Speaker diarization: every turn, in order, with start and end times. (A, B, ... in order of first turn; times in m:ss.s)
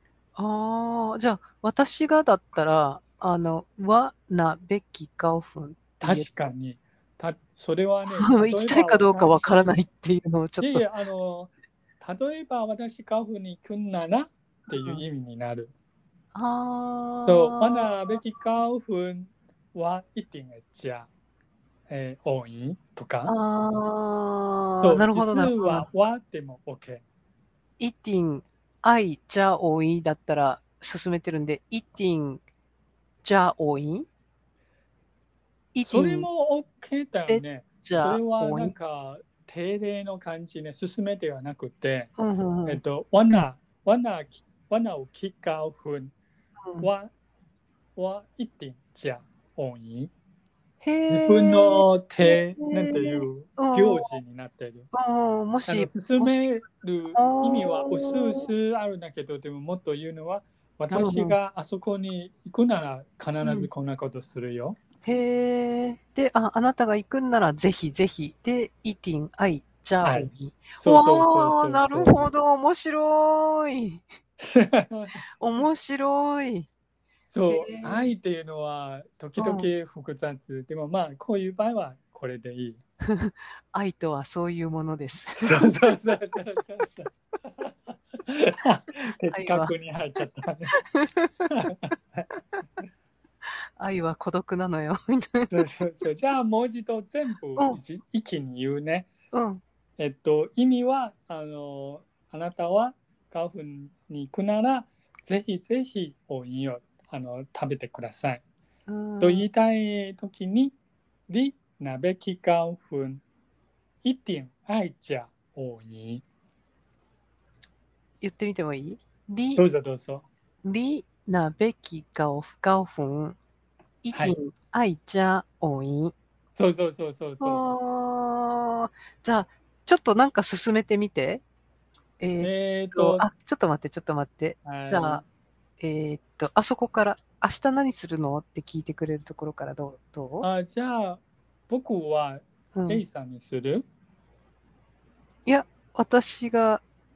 0:00.4-0:06.5 A
0:06.0-0:09.8 B
0:08.1-0:10.8 A
0:10.6-0:15.7 B
0:14.7-0:15.0 A
0:16.4-0:17.9 A
0:17.2-0:21.1 B
0:21.9-0:23.3 B
0:23.3-0:25.9 A
0:24.8-0:27.0 B
0:27.8-0:32.4 A
0:33.2-0:34.1 A
0:35.7-0:36.3 A
0:35.8-0:42.1 B
0:37.3-0:38.8 A
0:42.2-0:42.8 A
0:42.7-0:46.1 B
0:46.8-0:47.1 B
0:48.0-0:50.1 B
0:50.8-0:54.1 A
0:51.1-0:54.9 B
0:54.9-0:56.5 A
0:55.6-1:04.8 B
0:57.1-0:58.5 A
1:00.9-1:01.4 A
1:03.4-1:03.7 A
1:05.0-1:14.0 A
1:10.0-1:12.3 B
1:14.5-1:15.2 B
1:15.4-1:16.7 A
1:17.3-1:22.8 B
1:17.5-1:18.1 A
1:19.4-1:19.7 A
1:23.1-1:25.8 A
1:25.4-1:30.7 B
1:29.3-1:29.7 A
1:31.1-1:31.5 A
1:31.5-1:32.3 B
1:33.8-1:35.6 A
1:35.5-1:39.1 B
1:39.3-1:39.6 A
1:40.0-1:48.4 B
1:48.9-1:49.5 A
1:49.2-1:50.8 B
1:51.3-1:53.2 B
1:54.0-1:56.2 B
1:58.2-1:59.6 A
1:59.6-2:00.3 B
2:00.6-2:03.4 A
2:04.0-2:06.2 A
2:06.6-2:07.6 B
2:07.4-2:11.4 A
2:12.2-2:15.2 A
2:12.4-2:13.3 B
2:14.6-2:15.2 B
2:15.8-2:20.5 A
2:20.4-2:23.9 B
2:22.8-2:23.0 A
2:25.5-2:26.8 A